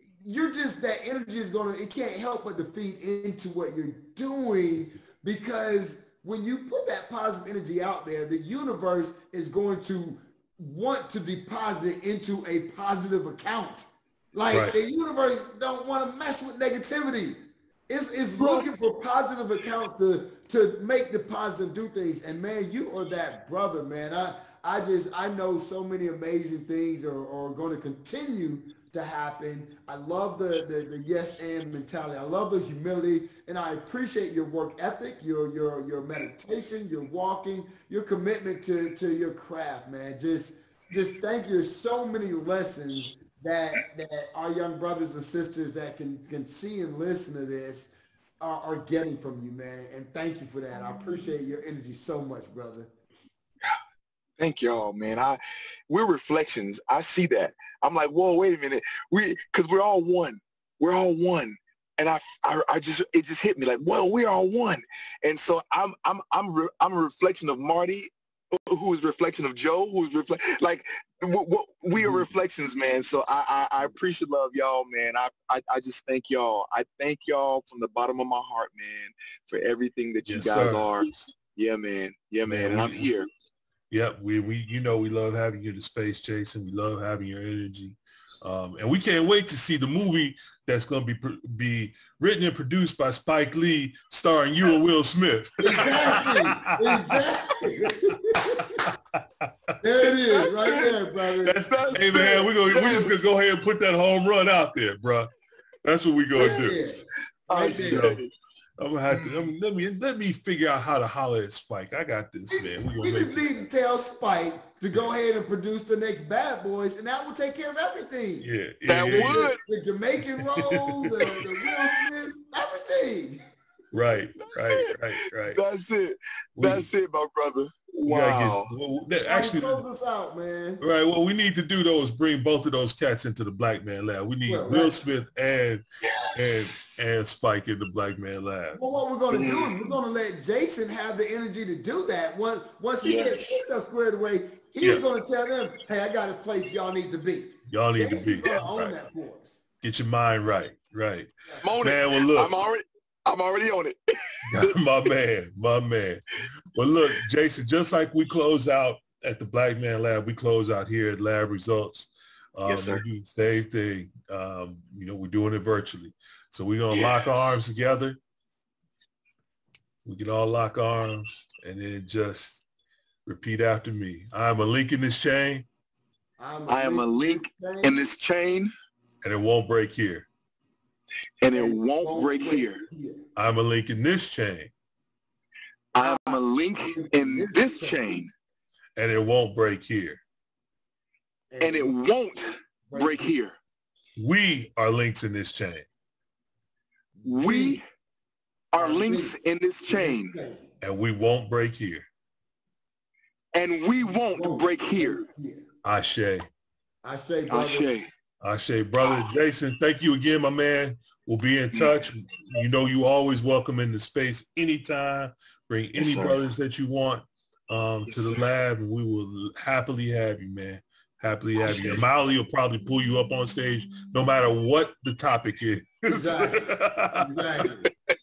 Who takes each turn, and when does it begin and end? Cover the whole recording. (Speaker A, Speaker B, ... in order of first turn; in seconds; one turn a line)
Speaker A: 0.2-52.9
Speaker B: 14.5-14.7
Speaker C: 18.4-18.7
Speaker C: 54.4-83.3
Speaker B: 72.0-72.3
Speaker B: 80.2-80.9
Speaker B: 82.5-83.1
Speaker B: 83.9-97.2
Speaker A: 95.6-98.9
Speaker B: 98.9-99.8
Speaker A: 99.8-101.6
Speaker C: 100.3-101.0
Speaker B: 101.4-105.3
Speaker C: 101.5-103.2
Speaker B: 105.8-107.0
Speaker A: 106.4-108.2
Speaker C: 106.4-106.7
Speaker C: 107.5-108.3
Speaker B: 107.7-108.2
Speaker B: 108.8-113.7
Speaker C: 109.1-109.4
Speaker A: 112.5-118.5
Speaker B: 118.4-119.5
Speaker C: 118.9-119.6
Speaker A: 119.1-123.4
Speaker B: 120.4-121.4
Speaker B: 123.9-125.6
Speaker C: 124.4-128.7
Speaker B: 126.6-126.9
Speaker B: 128.0-129.8
Speaker A: 129.3-130.8
Speaker B: 130.8-138.8
Speaker A: 134.5-135.0
Speaker C: 136.0-136.9
Speaker A: 138.7-149.6
Speaker C: 139.3-139.9
Speaker C: 143.0-143.6
Speaker B: 147.7-148.9
Speaker B: 149.8-152.5
Speaker C: 151.6-154.7
Speaker B: 154.4-156.2
Speaker B: 156.7-168.2
Speaker C: 162.6-163.0
Speaker C: 166.9-167.3
Speaker B: 170.0-172.6
Speaker B: 173.2-175.7
Speaker A: 176.4-178.0
Speaker C: 176.7-178.7
Speaker B: 179.2-180.3
Speaker C: 181.4-182.8
Speaker A: 181.5-183.2
Speaker B: 183.3-184.7
Speaker C: 185.9-188.3
Speaker A: 186.0-188.0
Speaker B: 188.9-190.2
Speaker A: 191.5-191.9
Speaker C: 191.6-193.6
Speaker A: 192.9-193.3
Speaker B: 194.2-195.9
Speaker A: 197.2-197.8
Speaker C: 197.2-197.8
Speaker C: 198.7-200.3
Speaker A: 198.8-200.7
Speaker B: 200.8-202.1
Speaker C: 203.5-205.2
Speaker A: 204.3-205.7
Speaker B: 205.8-206.5
Speaker A: 207.0-207.9
Speaker C: 207.5-208.1
Speaker B: 208.4-227.3
Speaker C: 216.0-216.4
Speaker C: 218.1-218.4
Speaker C: 221.6-222.0
Speaker A: 226.1-227.9